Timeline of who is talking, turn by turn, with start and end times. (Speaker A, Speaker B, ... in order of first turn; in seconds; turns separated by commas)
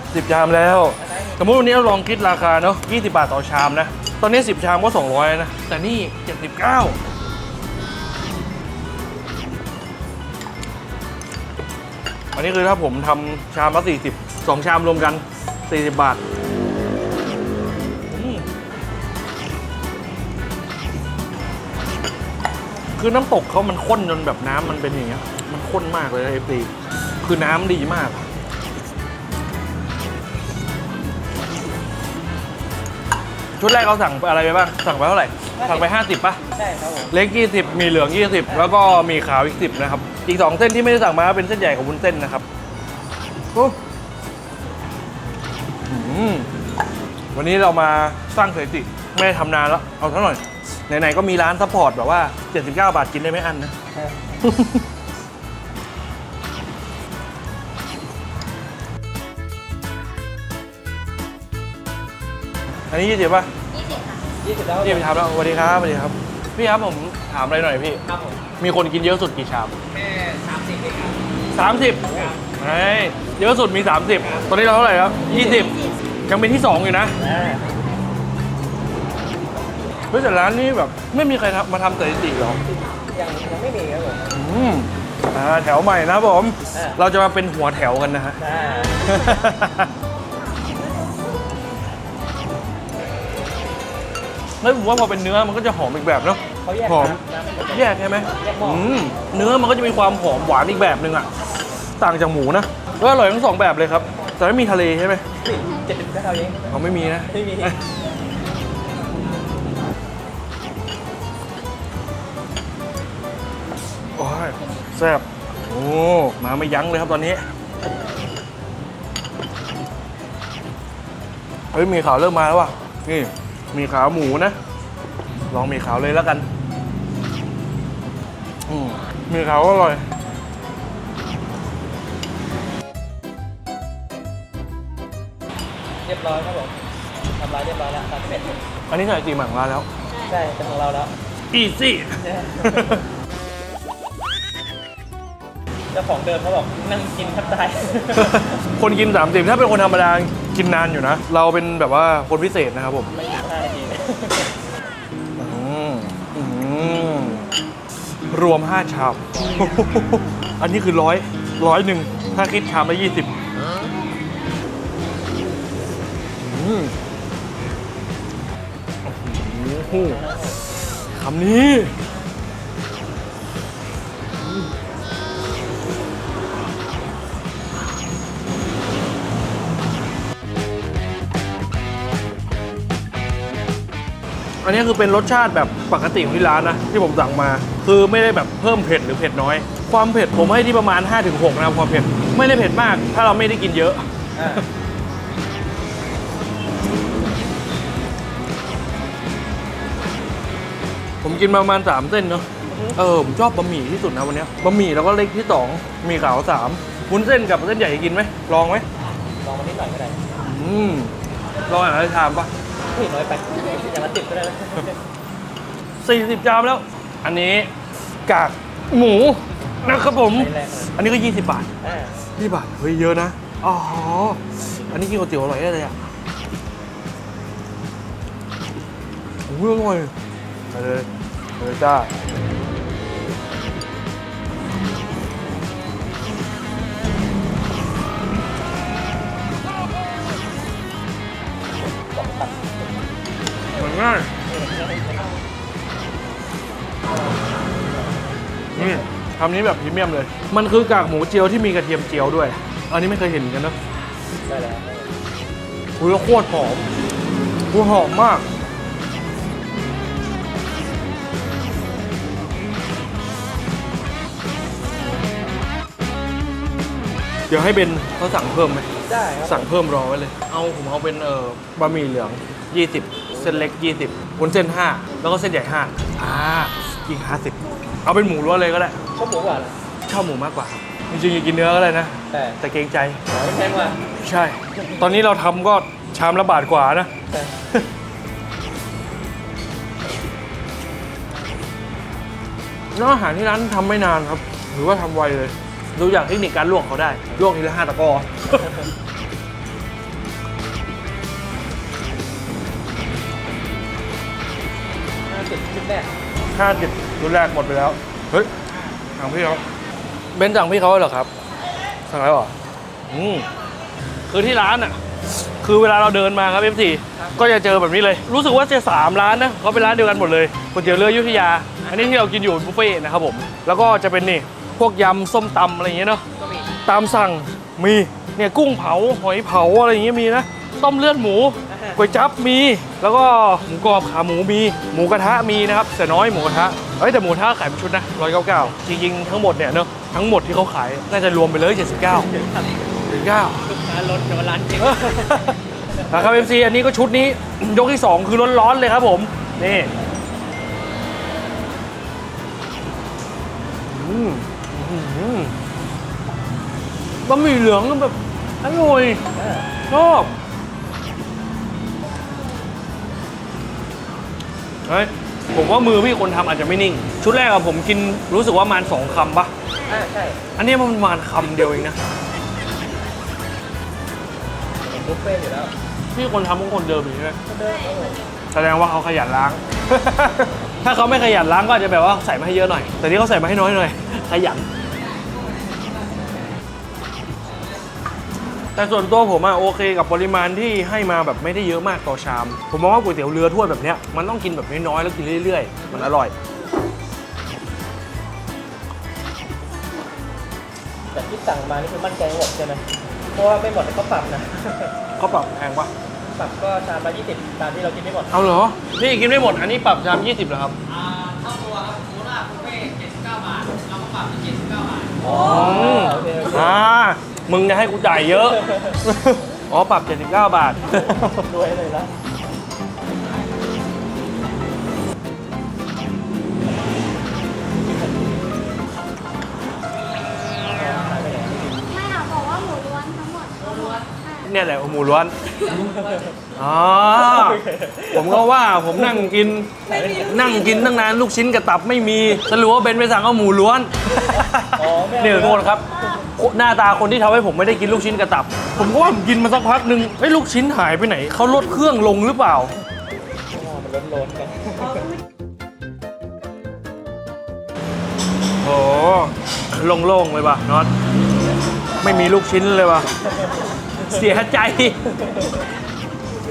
Speaker A: 0.1-7.0, Speaker B: 1.0-1.4, Speaker A: 12.3-16.2, Speaker A: 18.1-18.4, Speaker A: 23.0-26.7, Speaker A: 27.2-28.2, Speaker A: 33.6-36.4, Speaker B: 35.6-35.9, Speaker B: 36.5-37.1, Speaker A: 37.1-42.4, Speaker A: 45.9-46.5, Speaker A: 47.3-53.7, Speaker B: 54.0-54.4, Speaker A: 54.4-54.8, Speaker A: 62.9-63.5, Speaker B: 64.4-65.1, Speaker A: 64.8-68.0, Speaker A: 68.6-69.7, Speaker B: 70.1-70.9, Speaker A: 71.5-77.1, Speaker B: 71.9-72.3, Speaker B: 77.2-77.7, Speaker A: 80.1-82.6, Speaker B: 82.9-84.4, Speaker A: 84.3-88.4, Speaker B: 86.7-87.0, Speaker B: 88.4-89.1, Speaker A: 89.0-89.9, Speaker C: 90.8-91.4, Speaker A: 94.6-101.3, Speaker B: 96.6-99.2, Speaker A: 102.0-105.2, Speaker B: 105.3-106.8, Speaker A: 106.7-107.8, Speaker B: 107.3-107.7, Speaker A: 114.2-117.4, Speaker A: 121.7-124.5, Speaker A: 125.5-126.5, Speaker A: 128.7-130.0, Speaker B: 136.0-138.5, Speaker A: 138.9-139.9, Speaker B: 140.2-141.1, Speaker A: 141.5-143.0, Speaker B: 142.2-143.0, Speaker B: 145.9-148.5, Speaker A: 148.1-153.1, Speaker B: 153.1-154.5, Speaker A: 155.4-157.4, Speaker A: 158.3-163.3, Speaker A: 166.4-166.9, Speaker A: 169.0-170.2, Speaker B: 169.8-170.6, Speaker A: 171.1-171.9, Speaker A: 184.6-194.0, Speaker B: 194.3-194.6, Speaker A: 201.2-208.8, Speaker B: 202.7-202.9, Speaker B: 209.4-210.2, Speaker A: 210.4-211.1, Speaker A: 211.7-212.5, Speaker B: 212.9-215.0, Speaker A: 216.0-217.7, Speaker A: 218.2-221.7, Speaker B: 220.2-221.0, Speaker B: 221.8-222.1, Speaker A: 222.4-225.9, Speaker A: 229.5-230.1, Speaker A: 230.7-232.1, Speaker B: 242.1-242.8, Speaker A: 243.7-244.3, Speaker B: 244.5-245.3, Speaker B: 248.8-249.0, Speaker A: 248.8-253.8, Speaker B: 254.5-255.1, Speaker A: 256.0-256.9, Speaker A: 257.7-258.4, Speaker A: 267.5-268.9, Speaker B: 269.1-269.7, Speaker A: 269.4-279.0, Speaker B: 273.3-273.7, Speaker B: 279.1-279.7, Speaker A: 280.1-283.2, Speaker B: 282.3-282.6, Speaker B: 283.3-284.0, Speaker A: 284.2-287.1, Speaker A: 292.9-298.6, Speaker B: 305.3-306.1, Speaker A: 306.5-308.5, Speaker A: 309.1-309.6, Speaker A: 310.3-311.3, Speaker A: 312.1-312.5, Speaker A: 313.1-313.5, Speaker A: 314.3-326.2, Speaker B: 326.4-326.7, Speaker A: 326.8-342.3, Speaker B: 331.7-332.0, Speaker B: 342.3-342.9, Speaker A: 343.1-343.7, Speaker B: 343.6-346.4, Speaker A: 344.8-349.9, Speaker A: 353.9-355.5, Speaker A: 357.2-359.2, Speaker B: 359.3-359.7, Speaker A: 359.9-360.3, Speaker A: 364.9-369.5, Speaker C: 369.8-370.0, Speaker B: 369.9-370.4, Speaker A: 370.6-372.0, Speaker B: 374.8-375.7, Speaker A: 376.1-377.4, Speaker B: 377.5-378.2, Speaker C: 377.7-378.2, Speaker A: 378.5-384.6, Speaker A: 388.7-396.3, Speaker B: 401.1-404.9, Speaker A: 405.2-405.9, Speaker B: 406.3-408.3, Speaker A: 408.3-410.8, Speaker C: 411.2-415.0, Speaker B: 415.1-416.8, Speaker A: 415.3-421.3, Speaker B: 418.3-419.0, Speaker B: 420.9-422.1, Speaker B: 430.6-431.8, Speaker D: 431.9-434.5, Speaker A: 434.4-435.3, Speaker B: 435.7-436.4, Speaker A: 436.5-452.7, Speaker B: 437.1-439.3, Speaker B: 439.8-440.7, Speaker B: 444.1-446.2, Speaker B: 453.5-455.1, Speaker A: 458.6-460.9, Speaker B: 462.0-462.3, Speaker A: 462.0-463.1, Speaker B: 463.4-464.0, Speaker A: 464.0-465.0, Speaker B: 465.1-465.5